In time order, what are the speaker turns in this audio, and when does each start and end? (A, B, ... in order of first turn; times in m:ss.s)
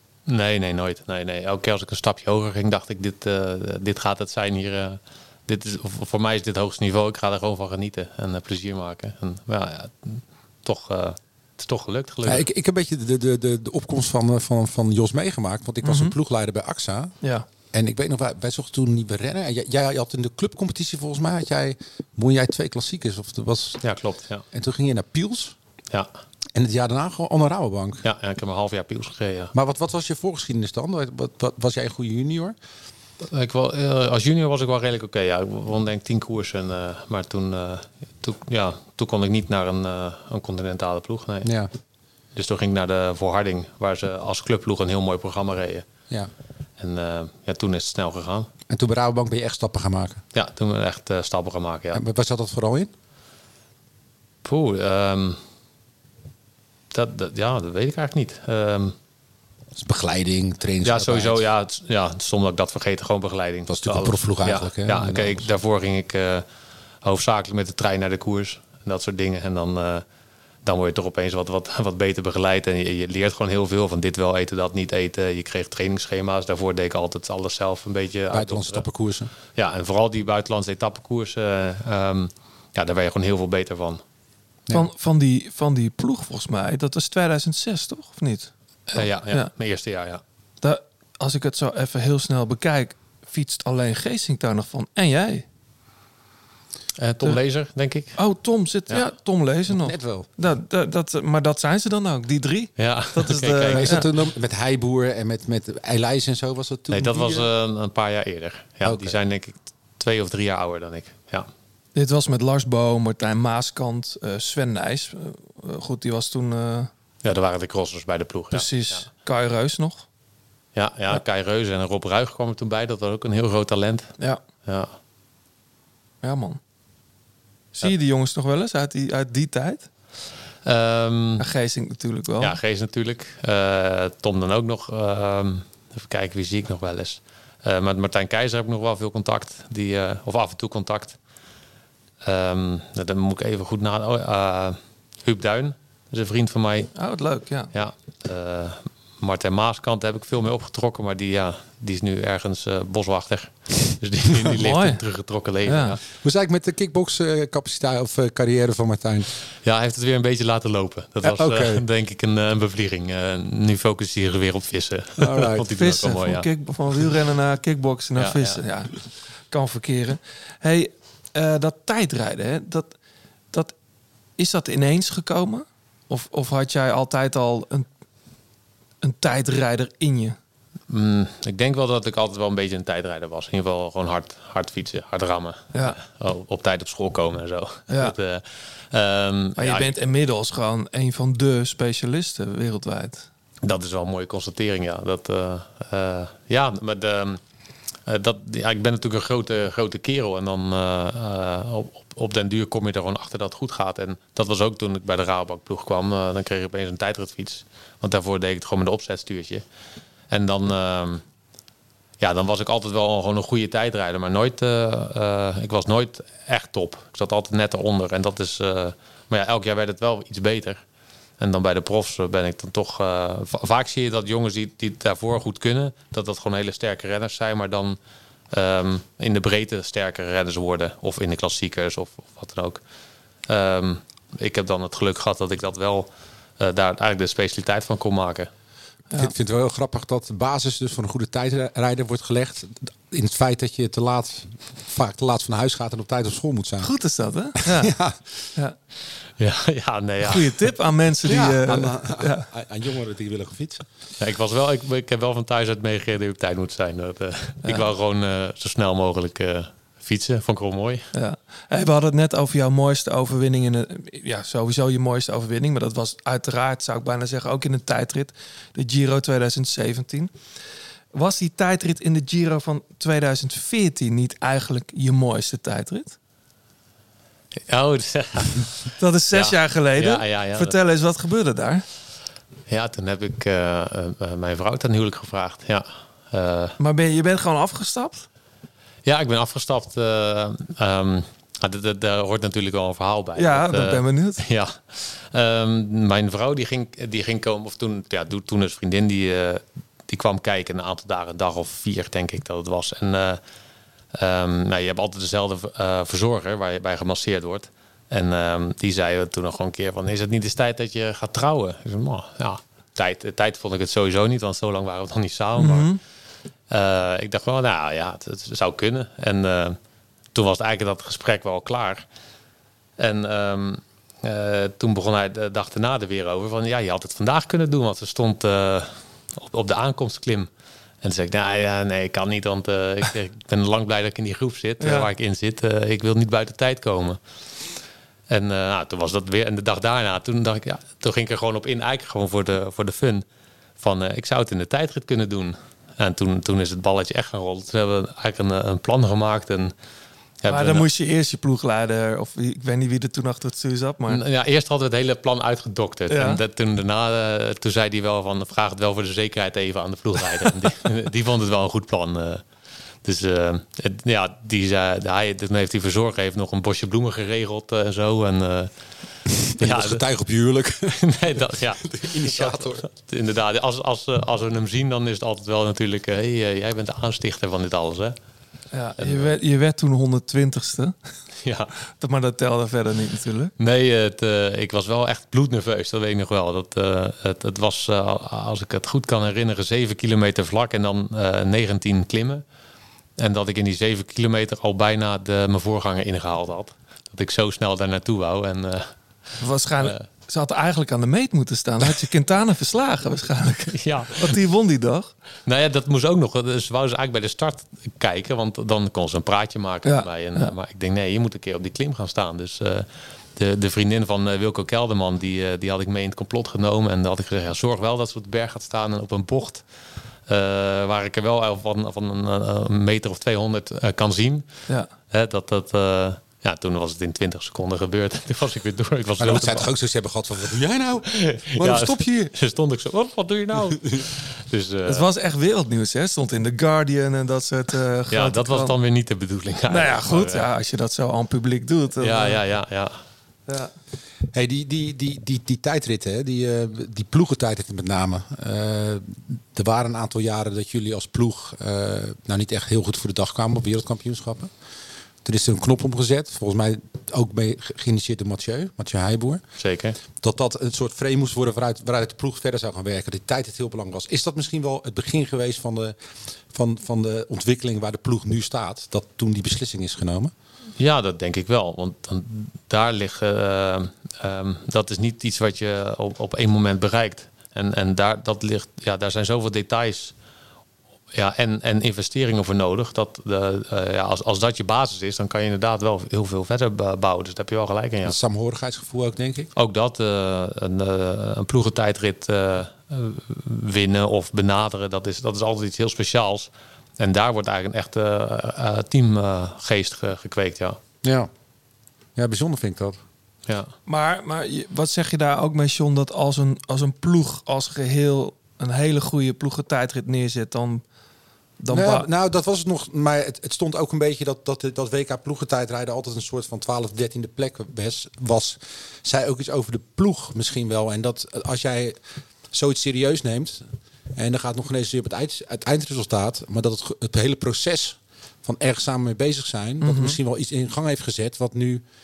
0:00.3-0:12.4 A
0:12.2-0:17.1 B
0:15.8-0:16.2 C
0:17.7-0:23.8 B
0:23.8-0:24.4 A
0:24.5-0:25.6 B
0:26.6-0:28.0 B
0:28.0-0:29.5 A
0:29.5-0:32.6 B
0:33.2-0:41.5 A
0:41.4-0:41.7 B
0:42.4-0:45.9 A
0:46.8-0:48.5 A
0:48.7-0:50.2 B
0:50.3-0:52.0 A
0:51.9-0:52.9 B
0:54.4-0:55.4 A
0:56.9-0:59.0 A
0:59.8-1:01.4 B
1:00.8-1:06.4 A
1:03.7-1:05.5 B
1:07.0-1:10.0 A
1:10.6-1:18.8 A
1:18.3-1:19.3 B
1:19.6-1:24.0 A
1:24.7-1:29.5 C
1:28.9-1:30.2 A
1:30.6-1:35.5 C
1:37.0-1:38.2 A
1:38.2-1:44.1 C
1:39.7-1:40.3 B
1:42.8-1:44.0 A
1:43.7-1:47.5 B
1:46.9-1:51.5 A
1:48.8-1:49.2 B
1:52.0-1:56.9 C
1:57.2-1:59.1 A
1:58.5-2:00.1 C
2:00.8-2:04.9 A
2:06.2-2:06.6 C
2:07.8-2:09.9 C
2:10.6-2:11.4 A
2:11.4-2:12.6 C
2:12.4-2:21.2 A
2:22.2-2:26.9 A
2:27.0-2:27.7 C
2:27.7-2:36.0 A
2:34.6-2:35.0 C
2:35.7-2:36.0 C
2:36.2-2:39.4 B
2:39.6-2:46.5 A
2:41.2-2:41.8 B
2:45.2-2:45.7 B
2:45.8-2:52.9 C
2:48.2-2:48.6 A
2:54.4-2:57.9 C
2:59.0-3:00.4 C
3:00.9-3:09.9 A
3:07.9-3:08.1 C
3:09.6-3:13.3 C
3:13.6-3:17.4 A
3:18.1-3:29.6 A
3:30.3-3:31.2 A
3:32.2-3:40.8 A
3:41.4-3:48.0 A
3:48.5-3:52.8 A
3:53.4-3:58.5 A
3:59.2-4:06.9 B
4:06.8-4:07.9 C
4:07.6-4:08.5 B
4:09.4-4:10.7 A
4:10.2-4:12.5 C
4:11.2-4:13.8 B
4:14.2-4:21.1 A
4:17.6-4:17.9 C
4:21.1-4:30.4 C
4:31.1-4:36.2 C
4:37.6-4:40.8 A
4:39.0-4:41.8 C
4:42.7-4:46.8 A
4:46.8-4:48.3 C
4:49.0-5:03.4 A
4:53.4-4:54.4 C
5:04.1-5:16.0 A
5:15.6-5:16.0 C
5:16.7-5:19.8 A
5:20.3-5:22.0 A
5:23.0-5:30.5 A
5:31.0-5:37.2 A
5:34.8-5:35.1 C
5:38.3-5:43.2 A
5:43.8-5:49.7 A
5:50.4-5:50.9 A
5:50.5-5:54.2 C
5:54.1-6:02.4 A
5:56.1-5:56.4 C
6:03.0-6:08.7 A
6:09.5-6:12.9 B
6:09.6-6:10.0 A
6:10.9-6:18.2 A
6:18.7-6:21.0 C
6:19.0-6:19.4 A
6:21.4-6:21.7 A
6:22.0-6:23.5 C
6:23.6-6:32.4 A
6:33.2-6:38.9 A
6:39.4-6:45.1 C
6:43.7-6:44.4 A
6:45.5-6:59.6 A
6:49.8-6:50.5 C
7:00.3-7:04.5 A
7:05.1-7:09.7 A
7:09.2-7:12.3 B
7:11.1-7:15.1 A
7:14.9-7:18.7 C
7:18.1-7:20.5 A
7:19.7-7:22.4 C
7:22.0-7:23.0 A
7:24.3-7:34.5 B
7:35.2-7:39.4 B
7:39.6-7:40.0 A
7:40.2-7:46.0 B
7:46.5-7:50.3 B
7:50.8-8:00.1 A
8:01.1-8:08.2 A
8:08.0-8:09.5 B
8:09.6-8:20.8 A
8:21.0-8:21.3 B
8:22.2-8:23.0 B
8:23.5-8:23.7 A
8:23.9-8:30.8 C
8:31.6-8:32.1 C
8:31.7-8:51.8 B
8:49.8-8:50.2 C